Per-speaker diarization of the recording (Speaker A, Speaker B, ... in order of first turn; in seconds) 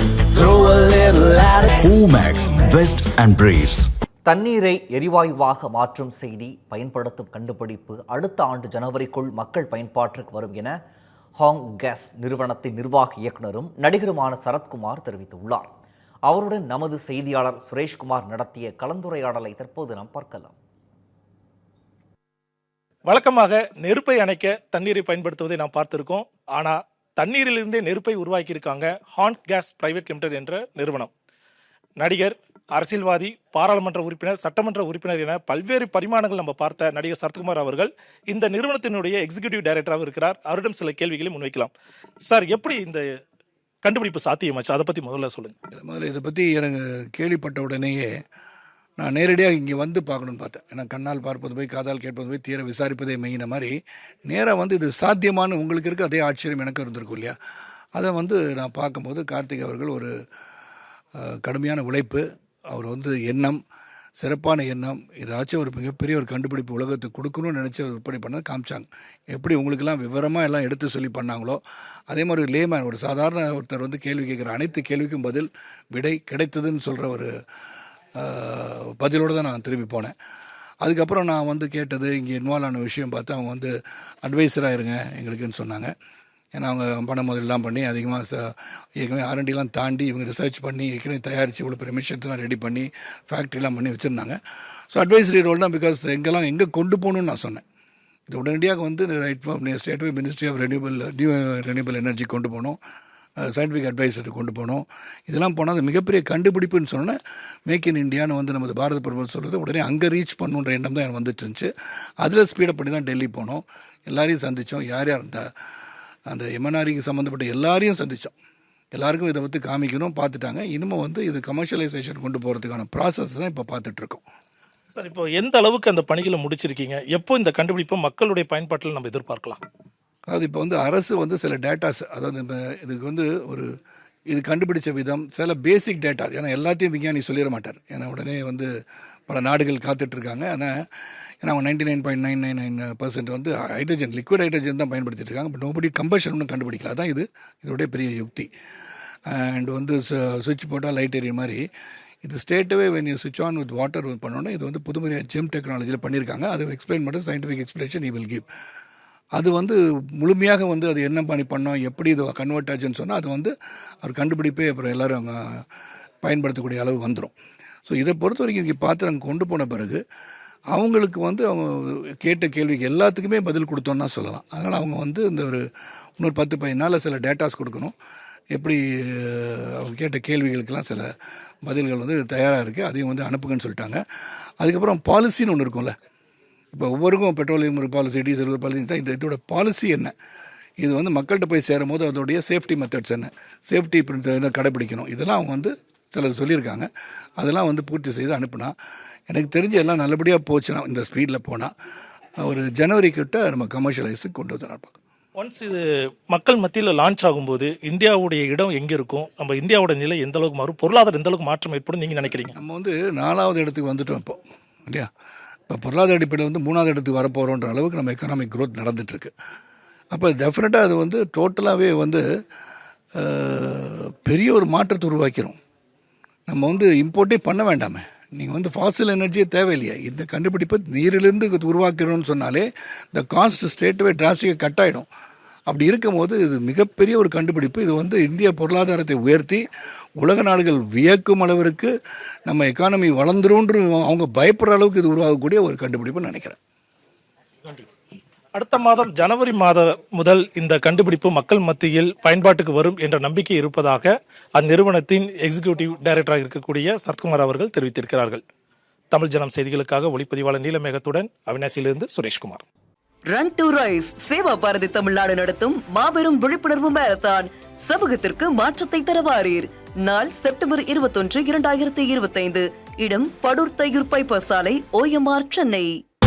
Speaker A: 0.1-1.8, 4.2-10.8, 11.4-15.7, 16.3-20.5
Speaker B: 1.8-3.9
Speaker C: 23.1-31.1, 32.0-41.7, 42.3-43.0, 43.8-45.5, 125.0-129.6, 205.4-212.6, 247.6-247.9, 248.5-258.4, 259.1-262.6
Speaker D: 45.7-48.1, 49.0-53.7, 54.3-57.3, 57.9-60.1, 61.2-63.6, 64.2-77.3, 78.2-80.1, 80.8-83.7, 84.2-85.9, 86.5-94.4, 94.9-97.6, 98.3-102.8, 103.4-111.7, 112.2-115.5, 116.3-118.3, 118.9-124.2, 130.3-133.7, 134.3-138.7, 139.3-140.7, 141.4-148.5, 149.3-151.6, 152.2-158.4, 159.3-163.5, 164.0-165.6, 166.2-167.3, 167.9-170.0, 170.7-175.6, 176.2-177.9, 178.5-181.1, 181.7-184.0, 184.6-185.9, 186.7-190.1, 190.8-198.7, 199.3-201.7, 202.4-205.0, 212.5-215.1, 215.7-219.3, 220.1-222.2, 223.2-225.6, 226.5-235.1, 235.7-239.6, 240.2-241.9, 242.5-246.6
Speaker E: 263.2-276.0